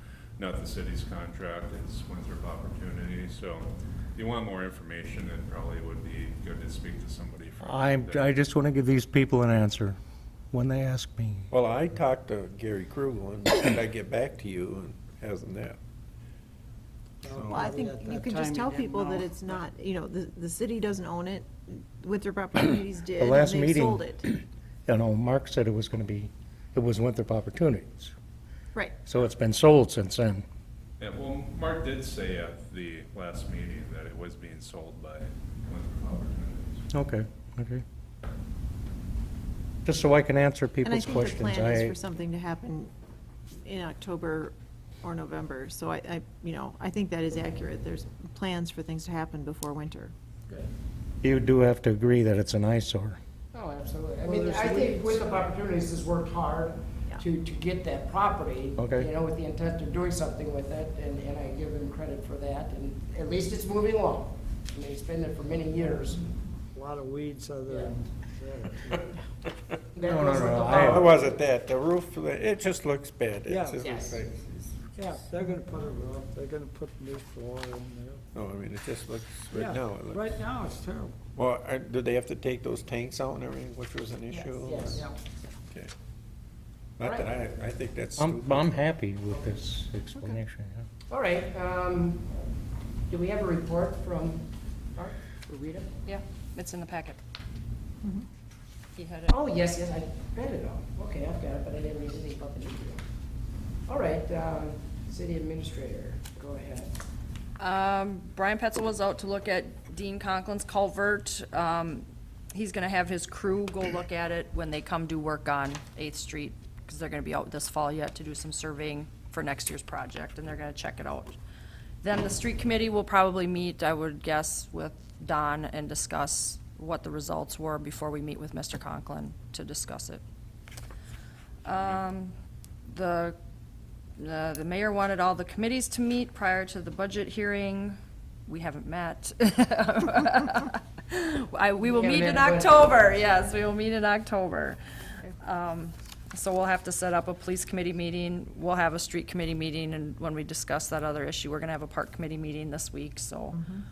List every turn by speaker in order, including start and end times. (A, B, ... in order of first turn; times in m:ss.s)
0:00.4-0:08.3 A
0:07.6-0:10.0 B
0:10.5-0:11.5 B
0:11.5-0:15.8 C
0:17.2-0:19.6 D
0:17.2-0:17.8 C
0:17.4-0:24.2 E
0:23.2-0:24.1 B
0:24.9-0:28.1 B
0:29.0-0:30.4 B
0:31.0-0:36.9 A
0:36.9-0:37.8 B
0:39.8-0:41.9 B
0:40.8-0:42.9 E
0:43.5-0:50.1 E
0:51.2-0:53.2 B
0:53.5-1:06.3 F
0:54.2-0:55.3 D
0:58.8-0:59.1 B
1:06.7-1:09.0 D
1:07.7-1:07.9 F
1:09.9-1:11.3 F
1:10.0-1:11.0 B
1:10.7-1:14.8 C
1:13.5-1:13.8 D
1:13.8-1:14.2 F
1:15.0-1:18.2 D
1:18.3-1:20.3 C
1:19.5-1:21.1 D
1:21.4-1:25.1 C
1:24.4-1:25.1 F
1:27.0-1:28.9 C
1:27.0-1:27.3 F
1:28.2-1:30.8 B
1:31.1-1:32.5 F
1:33.1-1:35.9 F
1:36.0-1:37.2 G
1:39.0-1:39.4 G
1:39.3-1:43.0 F
1:43.9-1:47.0 F
1:47.6-2:01.4 G
2:02.0-2:10.2 G
2:11.6-2:12.3 G
2:12.8-2:13.4 G
2:14.2-2:33.6 G
2:21.8-2:23.1 F
2:33.5-2:33.8 E